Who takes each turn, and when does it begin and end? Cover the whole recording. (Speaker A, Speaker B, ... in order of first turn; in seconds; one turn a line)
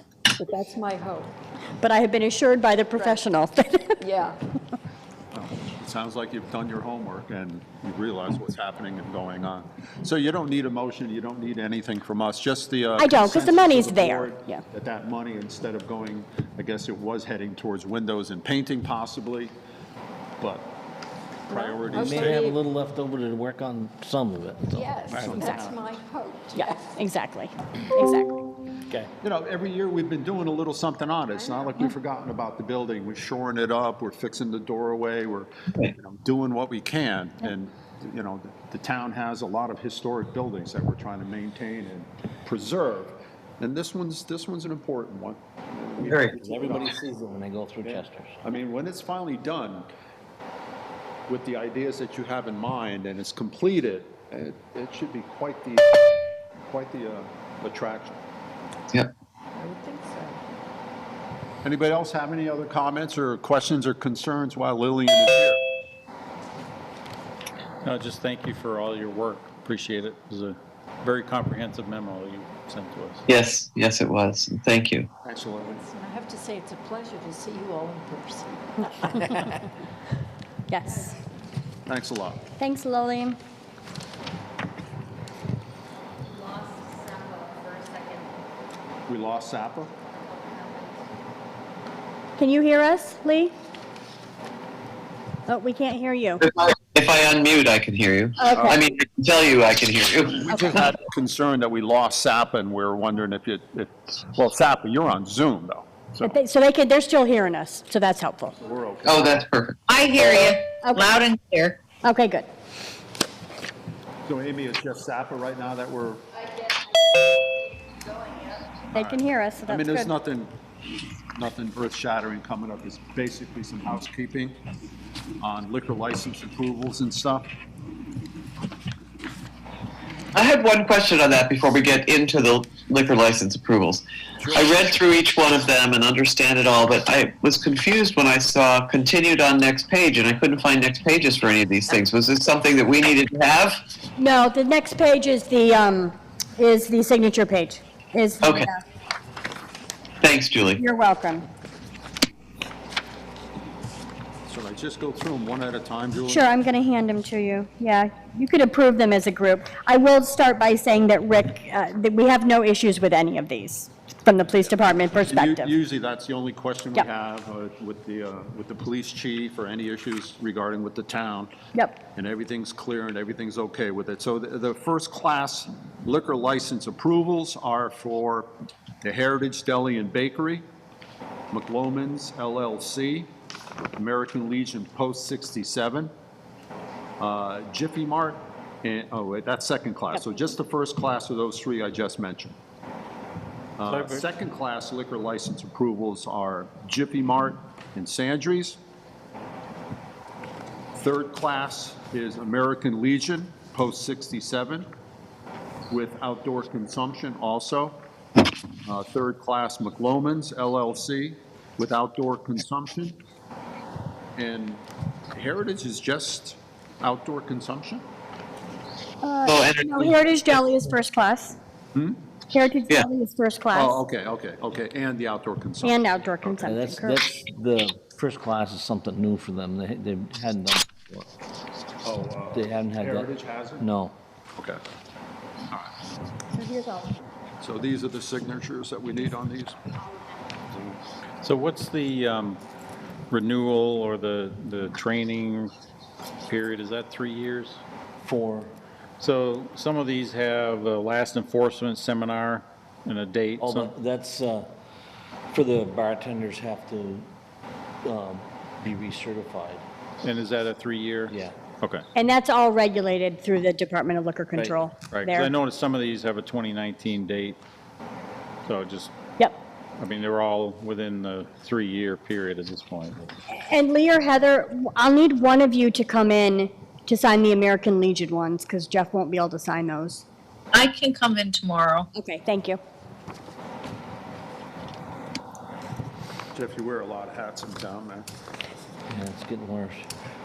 Speaker A: 0.3-1.3
Speaker B: 1.8-4.0
Speaker A: 4.0-4.4
Speaker C: 5.3-19.5
Speaker B: 13.0-14.6
Speaker C: 20.4-20.8
Speaker C: 21.5-22.5
Speaker D: 21.9-25.8
Speaker A: 21.9-22.6
Speaker A: 24.7-27.0
Speaker C: 25.1-25.8
Speaker B: 26.5-28.4
Speaker C: 29.2-47.0
Speaker E: 46.0-46.3
Speaker D: 46.3-48.4
Speaker C: 47.8-49.9
Speaker C: 51.3-56.0
Speaker C: 56.7-58.2
Speaker A: 59.5-60.4
Speaker C: 61.6-65.6
Speaker F: 67.8-73.2
Speaker E: 73.3-75.1
Speaker C: 75.2-75.8
Speaker A: 75.6-79.6
Speaker B: 80.7-81.2
Speaker C: 81.8-82.5
Speaker B: 82.6-83.4
Speaker G: 86.2-88.3
Speaker C: 89.1-89.9
Speaker G: 90.1-91.0
Speaker B: 92.4-93.5
Speaker B: 95.5-96.4
Speaker E: 96.4-100.7
Speaker B: 98.4-98.8
Speaker C: 98.5-98.8
Speaker C: 100.3-106.3
Speaker B: 106.2-108.6
Speaker C: 108.6-109.4
Speaker E: 109.0-109.8
Speaker H: 109.9-111.8
Speaker B: 112.0-112.5
Speaker C: 114.2-116.3
Speaker G: 118.1-118.6
Speaker B: 118.9-120.1
Speaker C: 118.9-120.6
Speaker C: 121.3-124.6
Speaker C: 125.4-127.5
Speaker E: 130.3-143.8
Speaker C: 134.4-134.9
Speaker B: 144.2-148.8
Speaker E: 148.4-148.7
Speaker E: 150.2-150.8
Speaker B: 150.8-151.4
Speaker C: 154.5-156.5
Speaker B: 156.3-165.7
Speaker C: 165.2-171.5
Speaker B: 171.7-172.0
Speaker C: 172.1-178.5
Speaker C: 179.0-180.6
Speaker C: 181.5-183.3
Speaker C: 184.0-186.1
Speaker C: 187.2-192.6
Speaker B: 190.1-190.4
Speaker C: 193.8-198.8
Speaker D: 193.8-194.3
Speaker C: 200.9-204.9
Speaker C: 205.9-208.0
Speaker C: 208.8-213.2
Speaker C: 214.4-218.0
Speaker B: 219.2-221.6
Speaker E: 219.4-220.2
Speaker B: 222.5-224.0
Speaker C: 223.7-226.6
Speaker B: 225.8-227.2
Speaker D: 226.6-231.2
Speaker C: 232.0-233.9
Speaker D: 232.5-234.2
Speaker A: 236.7-237.0
Speaker C: 237.6-239.8
Speaker F: 241.4-242.6
Speaker F: 243.3-245.7
Speaker F: 246.5-247.8
Speaker D: 248.2-248.7
Speaker F: 249.2-253.9
Speaker D: 253.6-254.8
Speaker D: 255.5-257.3
Speaker D: 258.0-259.8
Speaker F: 260.2-262.0
Speaker D: 261.3-261.6
Speaker B: 262.1-265.5
Speaker F: 265.1-267.6
Speaker F: 268.6-269.1
Speaker F: 270.0-273.4
Speaker B: 273.5-280.2
Speaker H: 280.7-282.1
Speaker B: 282.1-282.8
Speaker C: 286.5-288.3
Speaker D: 289.1-290.1